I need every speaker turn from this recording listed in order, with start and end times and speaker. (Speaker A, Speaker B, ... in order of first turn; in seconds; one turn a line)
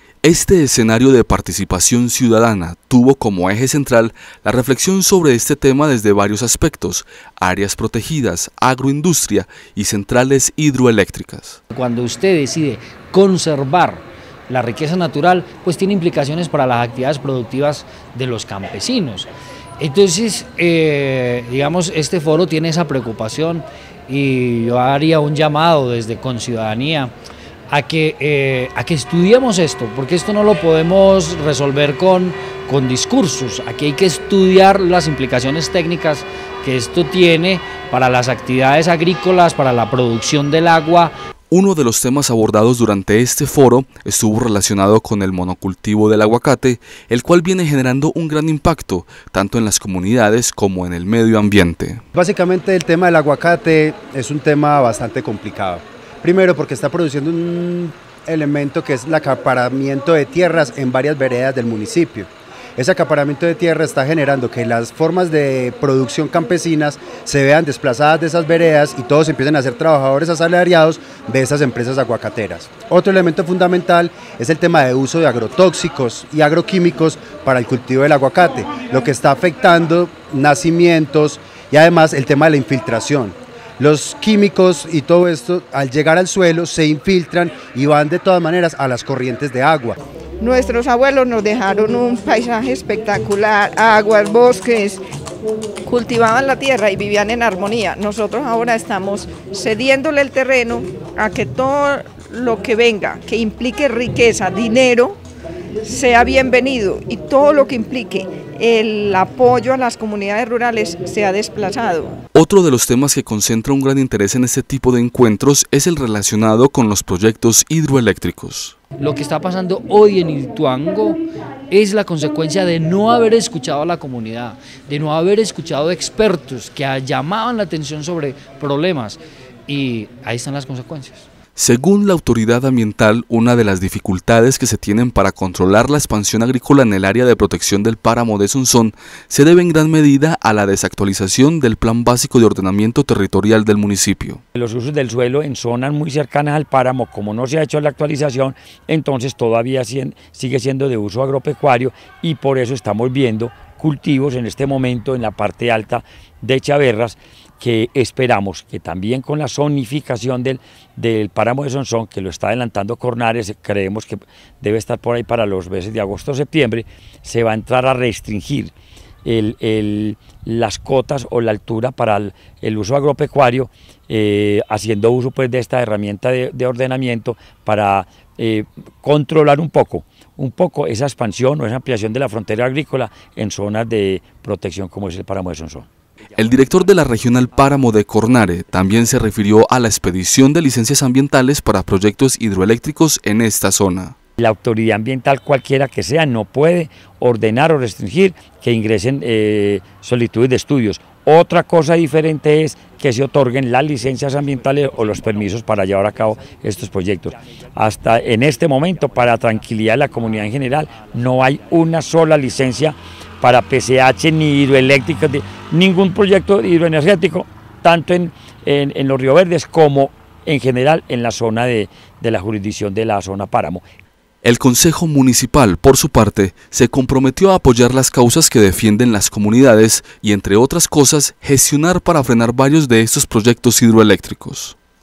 Speaker A: 0.2-11.6
Speaker B: 11.7-27.1
Speaker B: 27.7-41.1
Speaker A: 41.5-52.0
Speaker C: 52.1-90.0
Speaker D: 90.4-95.0
Speaker D: 95.8-105.2
Speaker D: 105.8-112.2
Speaker A: 112.3-118.8
Speaker B: 119.0-121.2
Speaker B: 121.7-131.2
Speaker A: 131.6-144.4
Speaker E: 144.6-168.7
Speaker E: 169.2-185.9
Speaker A: 186.4-194.2
Speaker E: 194.4-223.8
Speaker A: 224.4-234.8